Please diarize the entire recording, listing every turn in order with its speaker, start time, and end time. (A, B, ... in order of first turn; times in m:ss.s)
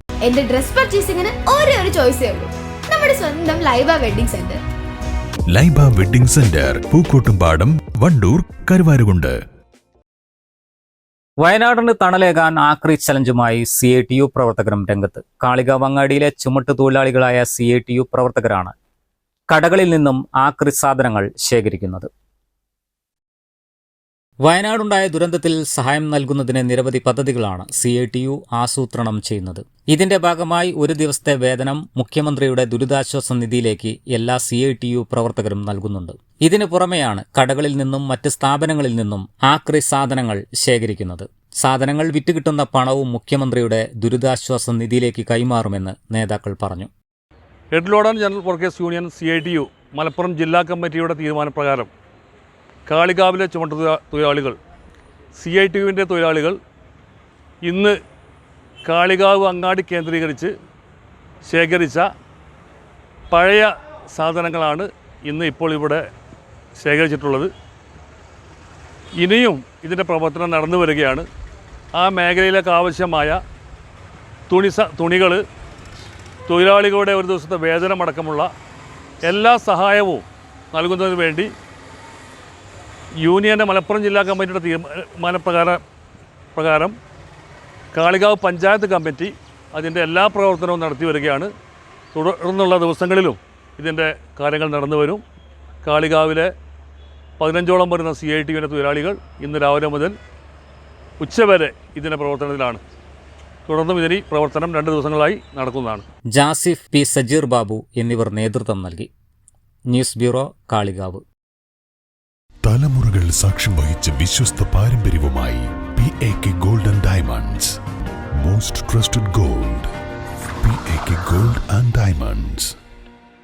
0:00.2-0:04.6 A
0:05.5-0:06.9 B
0:07.7-0:09.3 B
0:11.4-0:18.7 C
0:19.5-0:22.1 C
0:24.4-0:46.9 C
0:47.7-0:51.9 D
0:52.9-0:54.6 D
0:55.3-0:56.6 D
0:57.6-0:58.0 D
0:58.8-1:00.5 D
1:01.4-1:02.1 D
1:03.3-1:06.0 D
1:06.8-1:07.5 D
1:09.2-1:11.2 D
1:12.0-1:13.4 D
1:14.5-1:15.4 D
1:16.5-1:18.5 D
1:19.2-1:21.5 D
1:23.2-1:25.8 D
1:26.5-1:26.9 D
1:27.9-1:31.5 D
1:32.1-1:35.2 D
1:35.8-1:36.5 D
1:37.4-1:40.1 D
1:41.2-1:42.8 D
1:43.7-1:46.0 D
1:46.3-1:49.1 C
1:49.9-1:51.2 C
1:52.6-1:57.8 B
1:58.4-1:59.9 B
2:00.6-2:02.7 B